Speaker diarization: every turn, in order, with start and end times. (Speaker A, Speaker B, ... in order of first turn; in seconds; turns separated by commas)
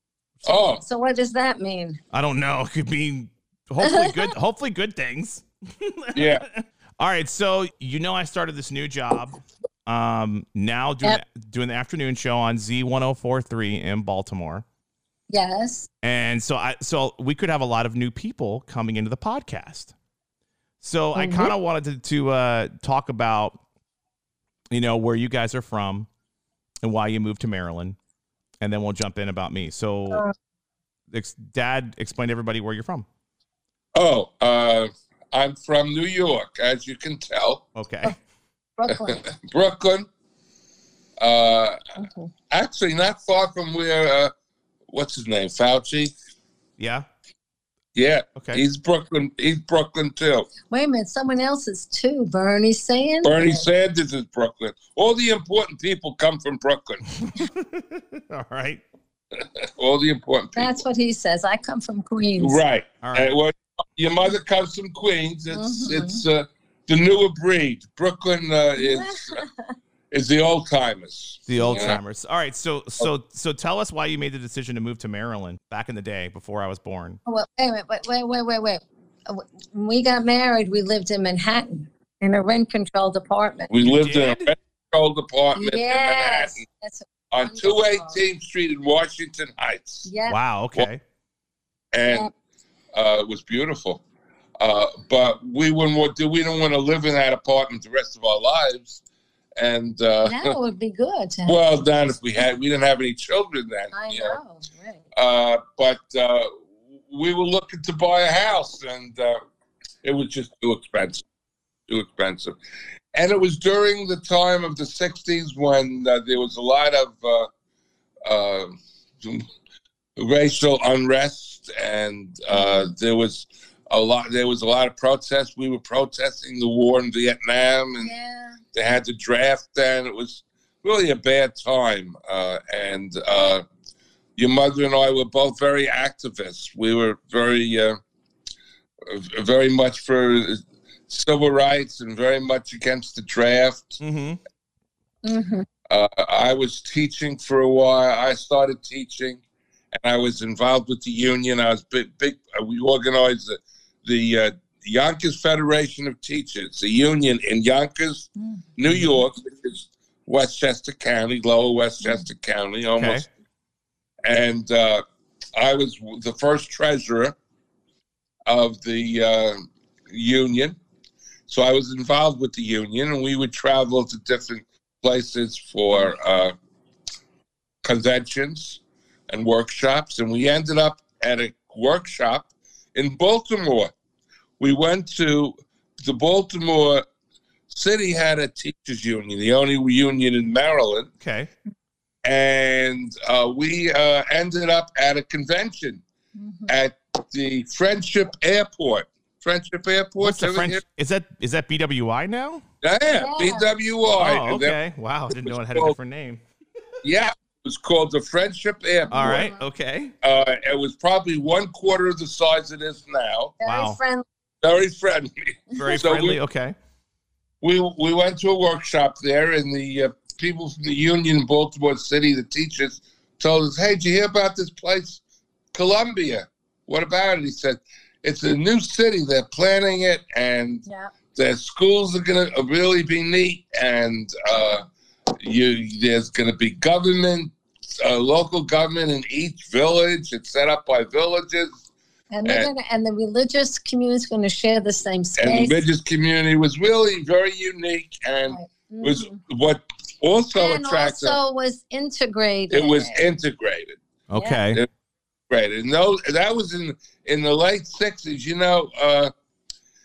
Speaker A: 0.5-0.8, Speaker B: 0.7-2.0, Speaker C: 2.1-14.6, Speaker B: 3.8-4.3, Speaker A: 6.1-6.4, Speaker B: 15.3-15.9, Speaker C: 16.0-19.9, Speaker C: 20.8-23.6, Speaker B: 21.1-21.5, Speaker C: 24.7-26.1, Speaker C: 26.8-27.9, Speaker C: 28.6-30.2, Speaker C: 31.1-33.0, Speaker A: 33.9-37.6, Speaker C: 37.7-38.1, Speaker B: 38.8-39.2, Speaker A: 38.9-40.1, Speaker A: 41.2-41.8, Speaker B: 42.0-42.3, Speaker A: 42.5-44.3, Speaker A: 44.9-46.1, Speaker C: 46.8-47.0, Speaker A: 47.9-50.5, Speaker C: 48.4-48.6, Speaker B: 50.7-53.7, Speaker A: 53.2-57.0, Speaker C: 57.2-58.8, Speaker A: 59.8-60.8, Speaker B: 60.5-62.6, Speaker A: 62.4-69.4, Speaker C: 63.0-63.3, Speaker B: 65.5-66.2, Speaker B: 68.8-69.7, Speaker A: 70.1-72.0, Speaker C: 71.5-77.2, Speaker B: 71.5-72.0, Speaker B: 77.2-83.7, Speaker A: 83.7-86.6, Speaker C: 83.8-84.5, Speaker B: 85.5-88.2, Speaker A: 87.3-90.1, Speaker B: 90.0-90.4, Speaker C: 90.2-91.0, Speaker A: 91.9-92.3, Speaker B: 92.0-92.3, Speaker A: 92.9-94.0, Speaker A: 94.6-99.0, Speaker A: 99.6-100.5, Speaker B: 100.2-101.6, Speaker A: 101.5-104.4, Speaker B: 103.9-105.0, Speaker A: 105.1-106.5, Speaker A: 107.1-109.4, Speaker A: 110.0-111.2, Speaker A: 111.9-112.6, Speaker A: 113.1-117.5, Speaker A: 118.2-119.4, Speaker A: 120.2-128.1, Speaker B: 122.5-122.9, Speaker B: 128.0-128.6, Speaker A: 128.7-133.6, Speaker A: 134.4-138.0, Speaker A: 139.1-144.0, Speaker C: 144.0-144.4, Speaker B: 145.2-145.7, Speaker A: 145.9-149.4, Speaker A: 149.9-163.2, Speaker B: 158.4-158.7, Speaker B: 162.0-162.2, Speaker C: 163.0-163.3, Speaker A: 164.2-165.0, Speaker A: 165.6-167.3, Speaker A: 168.5-170.8, Speaker A: 171.5-176.5, Speaker A: 177.8-183.9, Speaker A: 184.6-187.1, Speaker A: 187.7-191.1, Speaker C: 191.2-191.5, Speaker A: 192.2-196.0, Speaker B: 196.3-196.8, Speaker A: 196.7-200.8, Speaker C: 200.2-202.6, Speaker A: 202.8-205.9, Speaker B: 203.1-203.7, Speaker C: 204.1-206.4, Speaker A: 207.0-209.5, Speaker B: 209.1-209.6, Speaker C: 209.1-210.1, Speaker A: 210.2-213.5, Speaker B: 213.6-214.2, Speaker C: 213.7-214.0, Speaker A: 214.6-216.4, Speaker C: 215.8-216.7, Speaker A: 217.6-225.2, Speaker A: 225.7-234.8, Speaker B: 230.8-231.1, Speaker A: 235.4-241.8, Speaker B: 242.3-245.8, Speaker A: 242.4-242.7, Speaker A: 245.4-251.4, Speaker B: 248.5-249.4, Speaker B: 250.5-253.3, Speaker A: 252.7-254.0, Speaker C: 254.3-254.8, Speaker B: 254.3-254.6, Speaker A: 255.5-259.3